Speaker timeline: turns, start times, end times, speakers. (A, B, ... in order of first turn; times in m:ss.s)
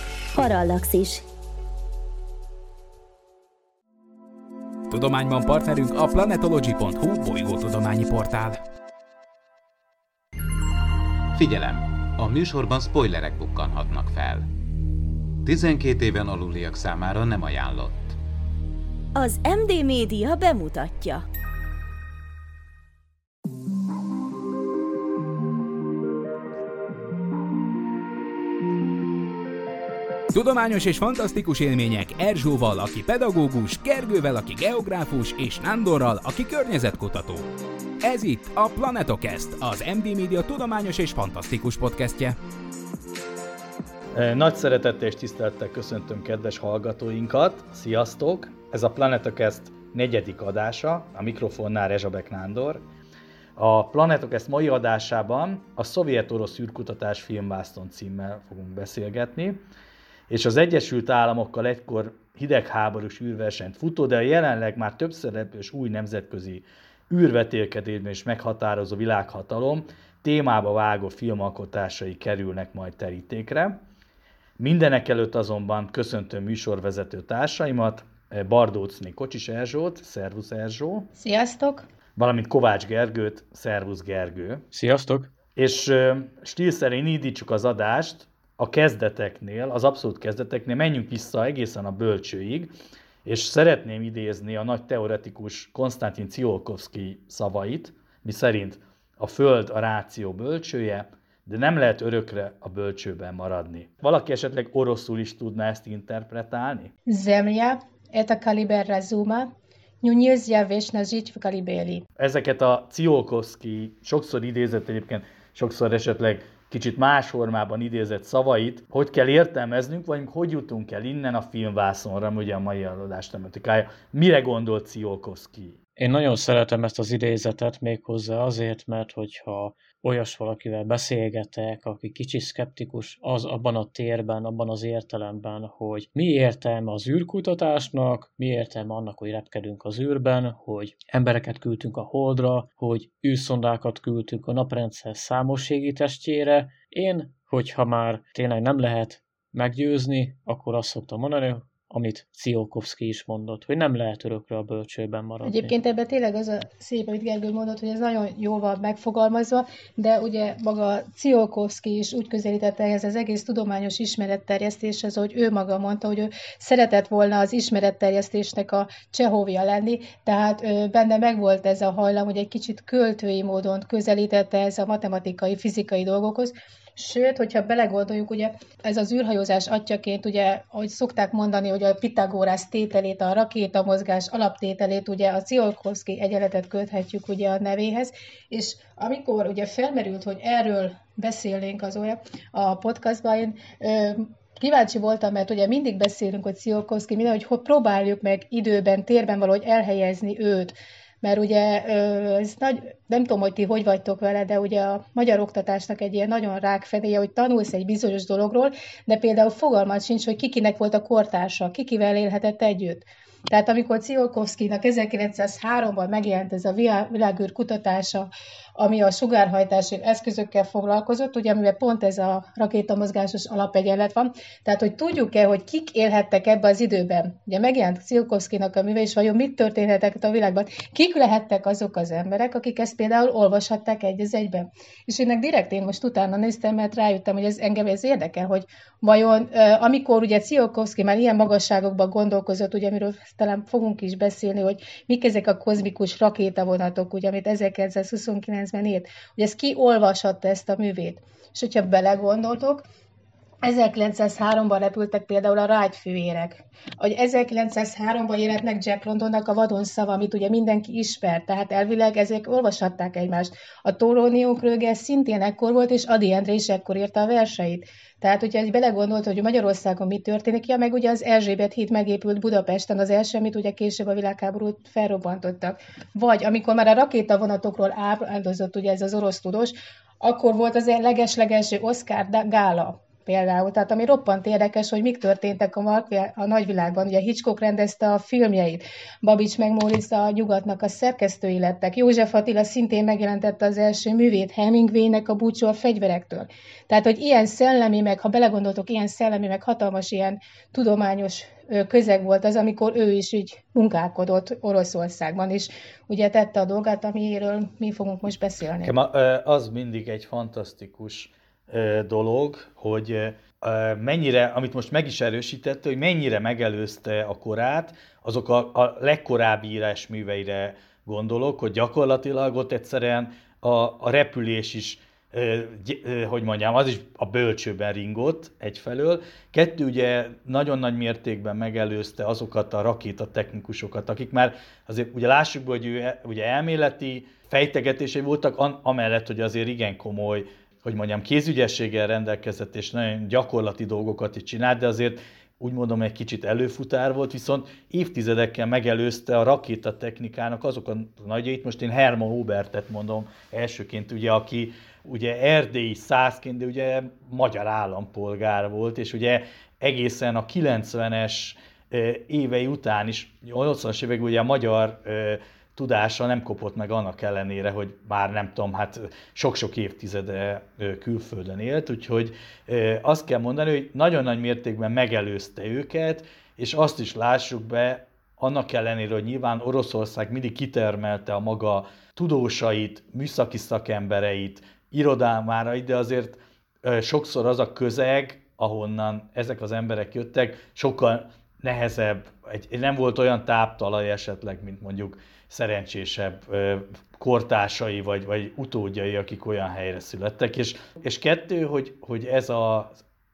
0:00.4-0:01.2 A
0:04.9-0:08.6 B
0:11.3-0:14.5 C
0:15.4-0:18.2 C
0:19.2-0:21.3 A
0:30.3-0:37.5 B
0:38.0-0:42.4 B
0:44.1-0:52.8 D
0:53.6-0:59.6 D
1:00.3-1:13.8 D
1:14.6-1:21.1 D
1:21.2-1:21.9 E
1:22.2-1:24.6 D
1:24.7-1:25.3 F
1:25.6-1:32.7 D
1:33.2-1:46.9 D
1:47.1-1:49.5 E
1:50.0-1:52.0 E
1:52.2-2:05.8 D
2:06.0-2:35.7 F
2:35.4-4:12.8 E
4:13.6-5:08.9 E
5:08.8-6:43.0 D